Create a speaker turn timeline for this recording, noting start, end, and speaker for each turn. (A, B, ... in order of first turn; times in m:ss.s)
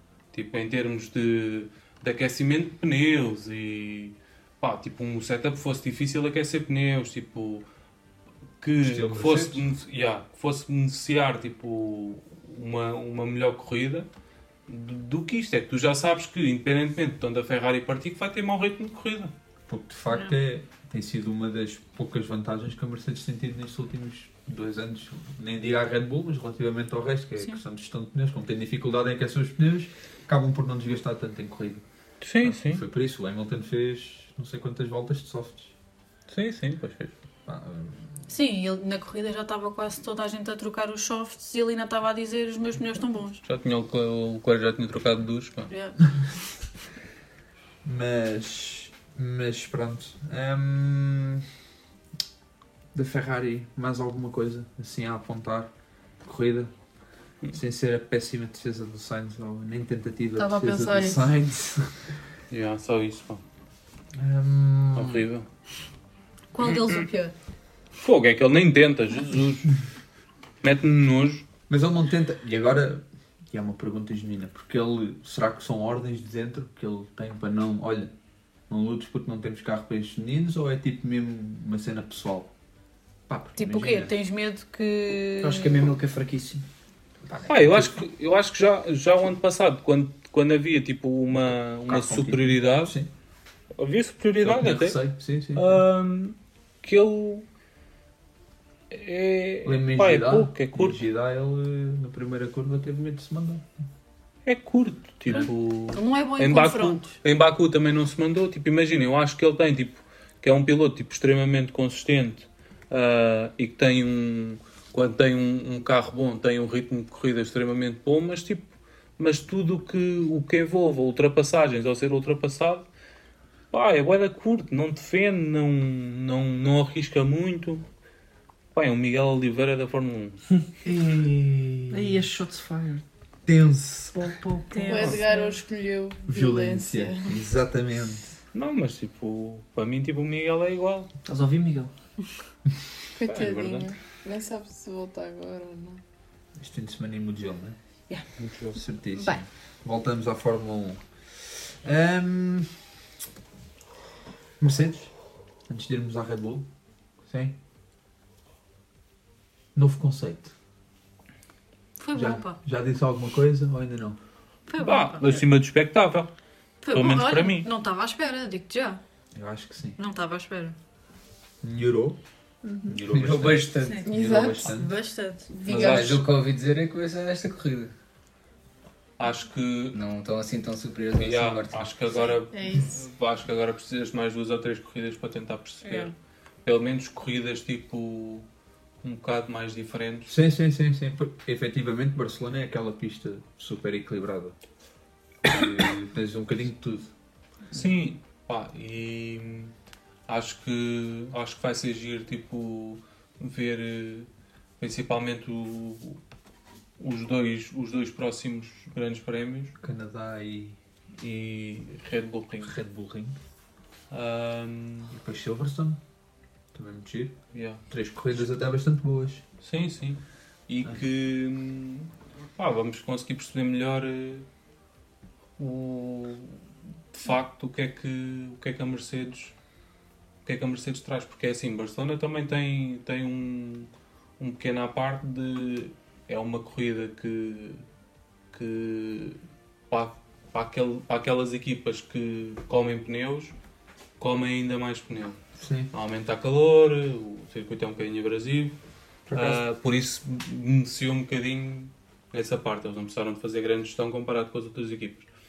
0:00.3-0:07.6 A
0:08.6-0:14.1 A
0:08.8-0:09.6 B
0:14.7-0:19.3 A
0:19.7-0:31.8 B
0:32.2-0:32.8 A
0:32.4-0:35.7 B
0:36.3-0:37.1 A
0:37.4-0:38.0 B
0:38.3-0:43.4 C
0:43.4-0:45.7 A
0:45.7-0:46.0 C
0:47.8-0:51.4 B
0:52.9-0:55.7 B
0:56.2-0:56.7 B
0:57.5-1:02.2 B
1:00.4-1:01.2 D
1:02.5-1:03.4 A
1:04.1-1:05.2 B
1:04.9-1:05.5 A
1:06.5-1:07.3 C
1:06.6-1:07.0 A
1:08.0-1:09.7 A
1:10.6-1:11.4 A
1:11.7-1:18.1 B
1:18.7-1:22.5 B
1:23.3-1:24.1 B
1:23.6-1:25.8 C
1:25.4-1:26.6 E
1:27.2-1:28.0 B
1:27.5-1:33.0 A
1:31.4-1:33.1 B
1:33.8-1:35.0 A
1:34.4-1:35.8 B
1:35.5-1:37.4 A
1:38.9-1:41.0 A
1:39.6-1:43.7 B
1:44.4-1:58.6 A
1:45.9-1:47.1 C
1:59.2-2:02.8 A
2:03.7-2:07.8 A
2:08.7-2:10.4 A
2:10.8-2:11.3 E
2:10.9-2:12.2 B
2:11.9-2:13.0 E
2:13.4-2:14.3 B
2:14.1-2:15.2 E
2:14.7-2:15.5 C
2:14.9-2:17.3 D
2:16.3-2:18.2 B
2:18.5-2:21.1 A
2:21.2-2:21.9 E
2:23.2-2:26.0 D
2:23.3-2:23.9 A
2:26.6-2:27.8 B
2:28.4-2:28.8 A
2:28.7-2:32.7 B
2:34.6-2:35.1 B
2:35.7-2:36.7 B
2:37.3-2:37.6 B
2:39.7-2:40.5 B
2:42.0-2:42.6 C
2:42.1-2:44.2 B
2:44.7-2:45.4 C
2:44.8-2:46.3 A
2:46.8-2:49.0 C
2:46.9-2:47.7 A
2:49.3-2:50.0 B
2:50.0-2:50.8 C
2:51.6-2:52.2 B
2:52.6-2:53.0 D
2:52.8-2:54.9 B
2:53.1-2:54.0 F
2:54.0-2:54.7 D
2:54.6-2:55.6 C
2:55.5-2:56.2 D
2:55.7-2:56.2 A
2:55.7-2:57.9 F
2:59.2-3:00.0 A
2:59.9-3:01.9 F
3:01.1-3:06.1 A
3:02.5-3:02.9 D
3:06.6-3:08.4 A
3:09.0-3:10.3 A
3:10.3-3:14.5 B
3:15.4-3:17.1 B
3:17.7-3:19.7 A
3:20.3-3:24.3 A
3:24.8-3:26.2 A
3:27.0-3:29.7 A
3:29.8-3:31.9 B
3:31.9-3:32.8 A
3:32.6-3:33.4 B
3:34.1-3:35.1 A
3:35.1-3:36.0 B
3:36.7-3:37.4 B
3:37.5-3:37.8 A
3:37.9-3:39.4 B
3:39.6-3:44.4 A
3:45.6-3:46.6 A
3:47.1-3:49.5 A
3:50.4-3:57.8 A
3:58.5-3:59.4 A
3:59.9-4:03.5 A
4:04.2-4:05.4 A
4:05.6-4:05.9 B
4:05.9-4:08.8 A
4:09.3-4:09.6 B
4:09.3-4:15.3 A